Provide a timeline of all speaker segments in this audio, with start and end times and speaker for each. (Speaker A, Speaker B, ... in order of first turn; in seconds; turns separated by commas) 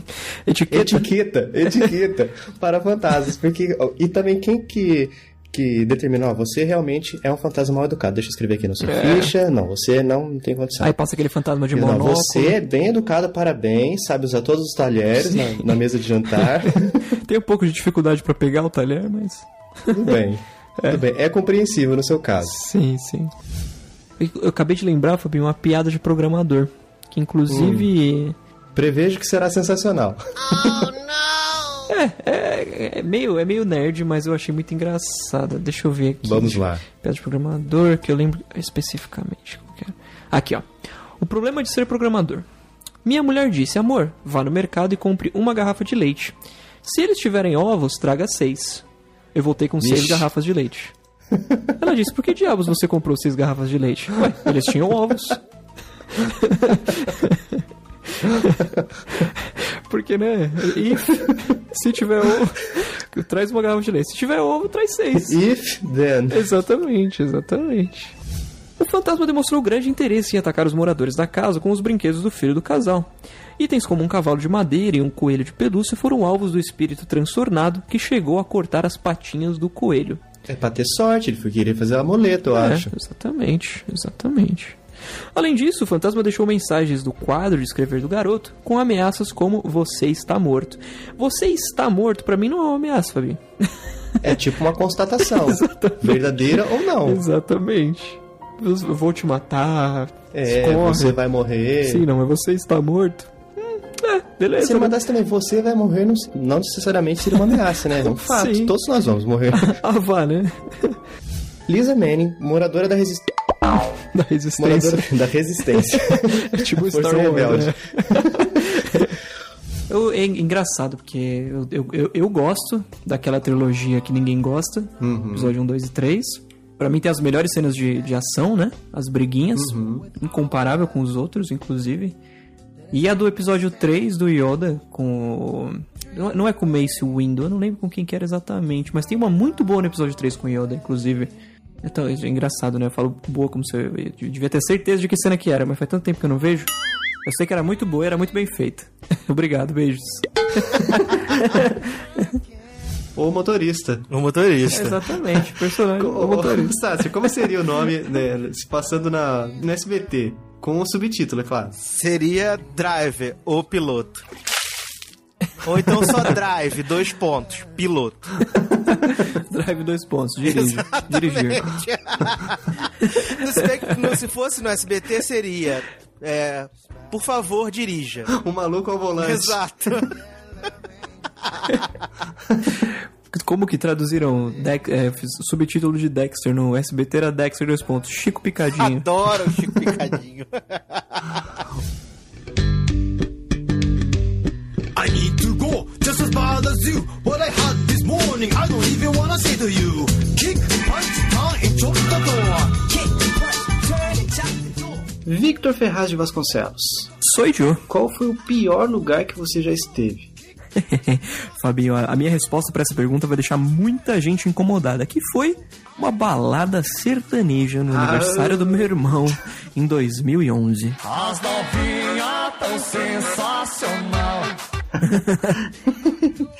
Speaker A: 0.5-1.1, Speaker B: 0.7-11.0, Speaker A: 8.8-9.3, Speaker A: 10.8-12.6, Speaker B: 11.7-17.0, Speaker A: 15.2-15.6, Speaker A: 17.1-20.1, Speaker B: 19.9-22.6, Speaker A: 22.4-23.3, Speaker A: 24.2-28.4, Speaker B: 27.5-27.9, Speaker B: 28.7-30.9, Speaker A: 31.9-42.5, Speaker B: 36.2-36.8, Speaker A: 43.0-50.9, Speaker B: 49.8-50.3, Speaker A: 51.8-55.4, Speaker A: 56.1-65.4, Speaker B: 65.2-66.5, Speaker A: 66.3-68.1, Speaker A: 68.8-80.2, Speaker B: 80.5-82.9, Speaker A: 82.5-84.8, Speaker A: 85.3-93.7, Speaker B: 94.2-97.2, Speaker A: 95.4-101.2, Speaker B: 100.3-102.0, Speaker A: 101.8-104.9, Speaker B: 104.6-109.8, Speaker A: 108.0-108.7, Speaker A: 109.5-111.0, Speaker B: 111.7-113.3, Speaker A: 114.1-115.0, Speaker B: 114.6-119.1, Speaker A: 116.3-119.1, Speaker A: 119.9-132.2, Speaker B: 125.0-125.5, Speaker B: 129.5-130.1, Speaker A: 132.9-141.3, Speaker A: 141.8-146.7, Speaker A: 147.2-152.3, Speaker B: 153.2-154.1, Speaker C: 154.1-154.8, Speaker A: 154.7-156.8, Speaker B: 155.9-161.8, Speaker C: 161.8-164.2, Speaker C: 165.6-168.2, Speaker A: 168.9-171.8, Speaker B: 170.5-170.7, Speaker C: 171.1-172.1, Speaker A: 173.0-173.2, Speaker C: 173.4-178.3, Speaker B: 178.3-180.1, Speaker C: 179.2-179.9, Speaker A: 182.8-189.1, Speaker C: 189.0-190.2, Speaker D: 194.9-205.0, Speaker B: 205.2-207.1, Speaker A: 207.2-207.8, Speaker B: 207.9-210.3, Speaker A: 210.8-221.0, Speaker B: 217.9-218.9, Speaker D: 221.0-224.6, Speaker A: 225.0-225.6, Speaker B: 225.8-226.3